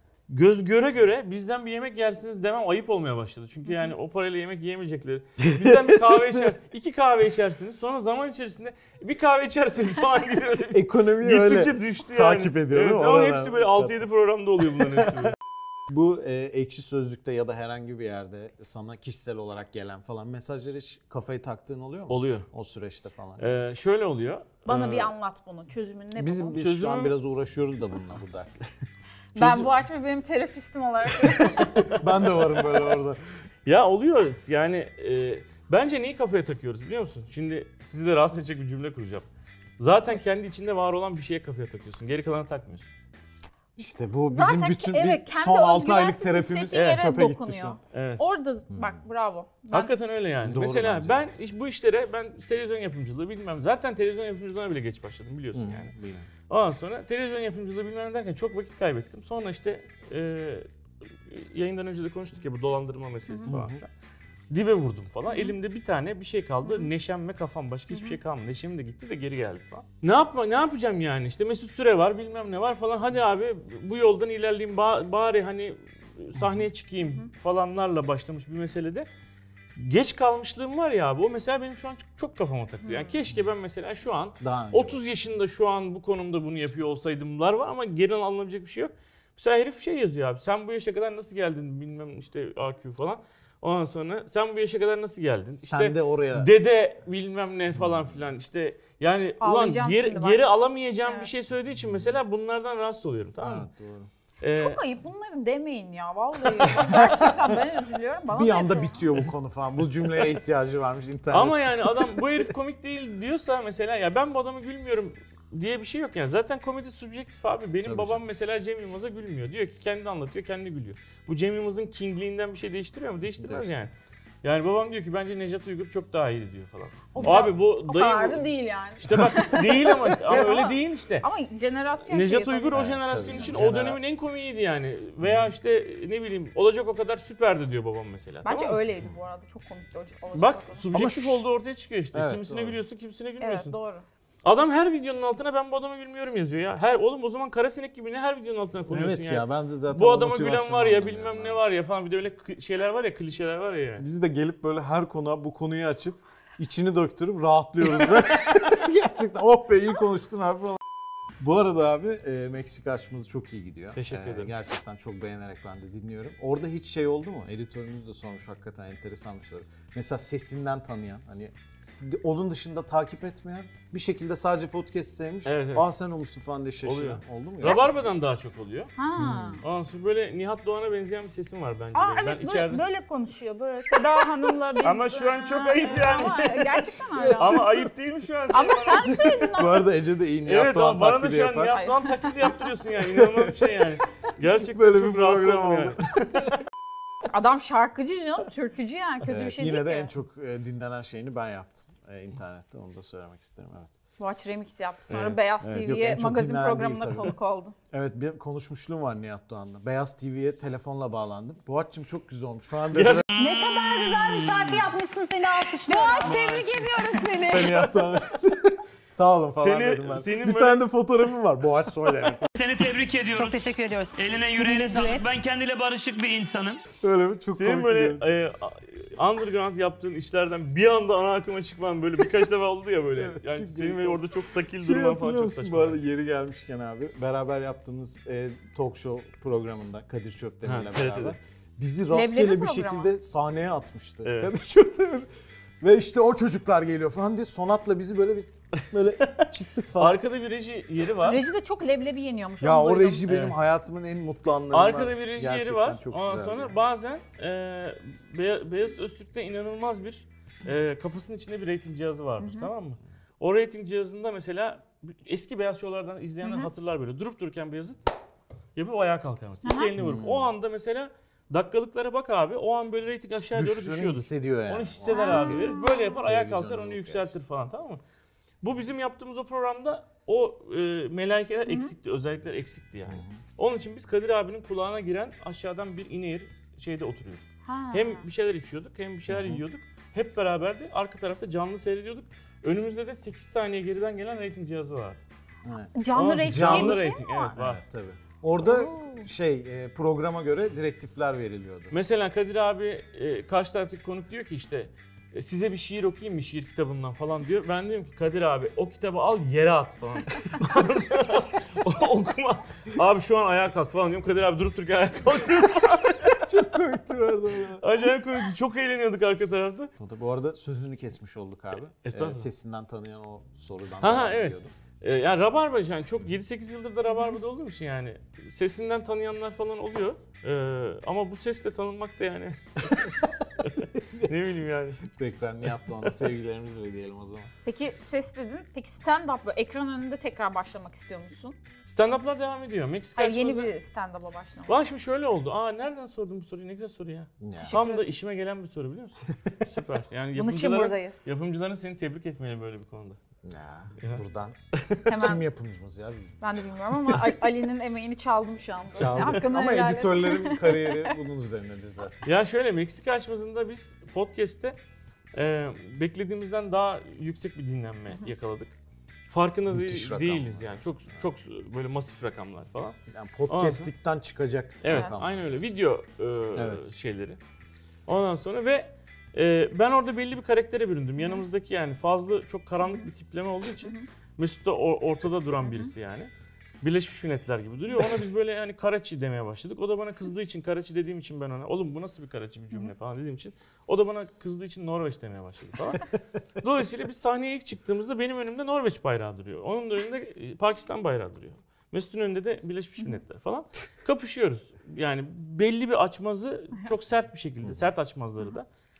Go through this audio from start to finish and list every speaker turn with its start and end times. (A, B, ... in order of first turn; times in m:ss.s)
0:00.3-0:15.3 A
0:03.7-0:03.9 B
0:05.4-0:06.5 C
0:10.7-0:14.0 C
0:15.9-0:23.6 C
0:22.1-0:22.5 A
0:23.4-0:25.1 A
0:24.6-0:26.6 B
0:26.2-0:28.6 C
0:26.6-0:27.1 A
0:29.3-0:31.9 B
0:29.4-0:29.7 A
0:31.4-0:32.0 A
0:31.8-0:33.2 C
0:33.6-0:39.3 A
0:39.8-0:42.9 A
0:43.8-0:47.8 C
0:44.3-0:49.9 B
0:46.7-0:47.0 A
0:47.9-0:48.2 A
0:48.7-0:49.0 C
0:49.7-0:55.9 A
0:50.4-0:51.2 C
0:55.5-0:56.3 C
0:56.5-1:00.7 A
1:01.3-1:03.9 A
1:03.5-1:03.8 C
1:04.5-1:19.1 A
1:05.3-1:05.6 B
1:06.6-1:06.9 B
1:07.9-1:08.2 B
1:16.4-1:16.6 C
1:19.8-1:43.7 A
1:22.8-1:23.2 B
1:24.4-1:25.0 C
1:35.6-1:36.5 C
1:37.8-1:38.1 C
1:39.4-1:40.5 B
1:41.0-1:41.3 B
1:41.9-1:42.1 C
1:43.4-1:44.1 C
1:44.4-1:44.8 A
1:44.6-1:49.0 B
1:46.8-1:47.5 C
1:48.3-1:52.2 C
1:51.3-2:03.9 A
1:57.8-1:58.2 C
2:03.4-2:03.8 C
2:04.4-2:08.4 A
2:07.1-2:12.9 B
2:07.2-2:07.4 C
2:09.0-2:11.2 A
2:12.1-2:18.8 A
2:12.7-2:14.0 C
2:15.2-2:15.5 C
2:18.4-2:20.9 B
2:20.3-2:23.7 A
2:20.9-2:21.5 C
2:22.1-2:22.8 C
2:23.4-2:24.0 B
2:24.4-2:34.0 A
2:28.9-2:31.6 C
2:34.0-2:40.8 C
2:41.4-2:57.9 C
2:44.0-2:44.5 A
2:55.4-2:55.9 A
2:56.8-2:58.9 A
2:57.6-2:57.9 B
2:59.0-2:59.6 B
2:59.2-2:59.6 C
2:59.6-3:02.8 A
3:01.9-3:07.6 B
3:04.8-3:09.6 A
3:07.2-3:07.8 C
3:08.5-3:09.9 B
3:09.2-3:11.8 C
3:10.4-3:16.6 A
3:11.7-3:12.5 B
3:13.1-3:13.8 C
3:14.6-3:16.2 C
3:17.2-3:20.1 B
3:19.2-3:23.9 C
3:24.2-3:27.8 B
3:25.1-3:25.4 A
3:25.6-3:27.3 C
3:27.9-3:33.3 C
3:32.9-3:33.3 A
3:33.3-3:34.6 D
3:33.4-3:37.9 E
3:35.8-3:36.3 B
3:36.2-3:37.0 D
3:37.5-3:42.5 C
3:39.6-3:40.9 A
3:42.6-3:46.8 D
3:43.3-3:45.3 E
3:47.0-3:48.3 C
3:47.5-3:56.0 A
3:53.2-3:54.2 C
3:54.8-4:05.3 C
4:00.6-4:01.4 A
4:02.1-4:03.1 B
4:04.2-4:04.5 A
4:05.8-4:10.2 C
4:10.0-4:11.4 A
4:11.2-4:13.3 B
4:12.6-4:16.7 C
4:13.3-4:13.5 A
4:14.7-4:28.0 A
4:22.4-4:22.7 B
4:26.4-4:26.7 B
4:28.7-4:38.0 A
4:29.6-4:29.9 B
4:30.0-4:30.5 C
4:33.5-4:37.4 C
4:35.1-4:36.2 B
4:38.6-4:55.2 A
4:41.6-4:41.9 B
4:43.1-4:43.4 C
4:47.6-4:48.2 B
4:49.3-4:49.6 C
4:55.6-5:01.9 C
4:55.9-4:57.6 B
4:56.1-4:57.8 A
4:58.6-4:59.3 B
5:01.9-5:16.4 A
5:16.4-5:17.8 C
5:17.8-5:19.9 A
5:20.0-5:24.7 C
5:22.0-5:22.5 A
5:24.0-5:35.0 A
5:34.0-5:34.3 C
5:35.0-5:37.5 C
5:37.6-5:41.6 B
5:41.8-5:43.7 A
5:43.2-5:44.9 B
5:44.7-5:53.2 A
5:47.4-5:47.8 C
5:47.6-5:48.0 B
5:50.3-5:51.3 B
5:53.4-5:54.6 C
5:54.7-5:55.2 A
5:55.0-5:55.4 B
5:55.1-5:56.4 C
5:56.4-6:01.1 B
5:58.9-6:02.3 C
5:59.0-5:59.4 A
6:02.2-6:04.8 A
6:05.3-6:08.8 A
6:09.3-6:13.0 A
6:09.7-6:10.8 C
6:13.1-6:15.4 C
6:13.5-6:13.9 A
6:14.8-6:17.4 A
6:14.9-6:15.2 B
6:16.5-6:16.8 C
6:18.0-6:26.3 A
6:23.8-6:24.1 B
6:25.6-6:25.9 B
6:26.8-6:48.7 A